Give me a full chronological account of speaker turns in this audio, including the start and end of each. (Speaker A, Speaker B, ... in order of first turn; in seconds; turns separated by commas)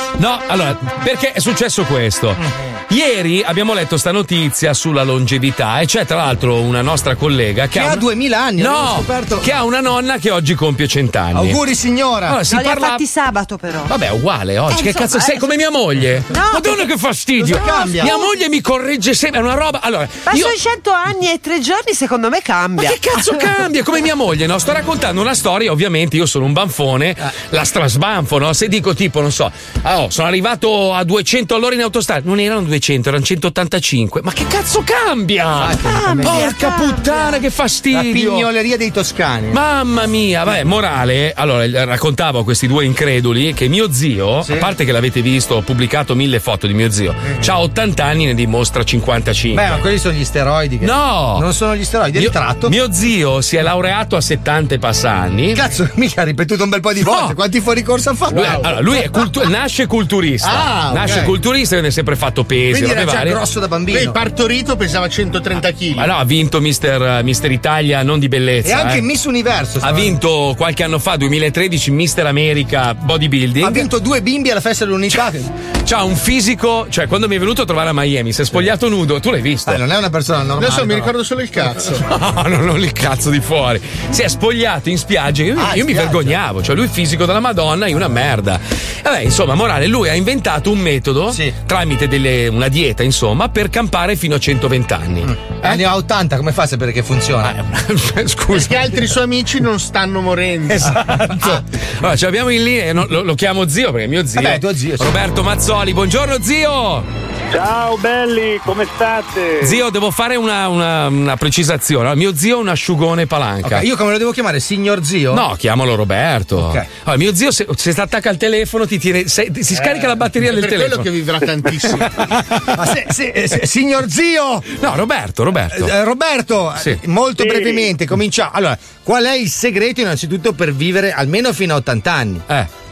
Speaker A: 0.2-11.6, Speaker B: 2.4-2.8, Speaker B: 7.7-9.5, Speaker B: 11.3-12.4, Speaker A: 12.3-13.0, Speaker C: 12.4-13.9, Speaker A: 13.8-20.5, Speaker C: 14.7-15.5, Speaker C: 16.3-16.7, Speaker B: 17.4-18.1, Speaker C: 20.3-23.4, Speaker A: 22.8-38.5, Speaker B: 35.6-36.5, Speaker C: 36.0-37.4, Speaker B: 37.9-39.6, Speaker A: 39.5-49.7, Speaker B: 44.4-44.7, Speaker B: 47.3-47.5, Speaker B: 49.5-52.8, Speaker A: 50.8-51.5, Speaker A: 52.1-55.6, Speaker B: 55.5-59.3, Speaker A: 57.0-57.3, Speaker A: 58.3-63.4, Speaker B: 60.4-61.3, Speaker B: 62.7-64.2, Speaker D: 63.9-66.1, Speaker A: 66.0-69.0, Speaker B: 68.6-70.2, Speaker A: 69.8-73.9, Speaker B: 73.6-75.4, Speaker A: 75.8-79.8, Speaker B: 79.7-81.1, Speaker D: 80.6-82.0, Speaker A: 82.0-95.8, Speaker B: 85.5-86.4, Speaker B: 91.3-91.5, Speaker B: 95.2-97.5, Speaker A: 97.4-98.9, Speaker D: 98.5-100.9, Speaker A: 100.7-107.1, Speaker B: 101.3-101.6, Speaker B: 104.3-105.1, Speaker E: 107.5-109.8, Speaker A: 109.6-113.8, Speaker B: 113.6-115.4, Speaker A: 115.3-121.1, Speaker B: 116.5-116.9, Speaker D: 119.7-122.1, Speaker A: 121.8-122.8, Speaker B: 122.7-124.7, Speaker A: 124.7-125.9, Speaker B: 125.7-132.4, Speaker E: 127.4-127.9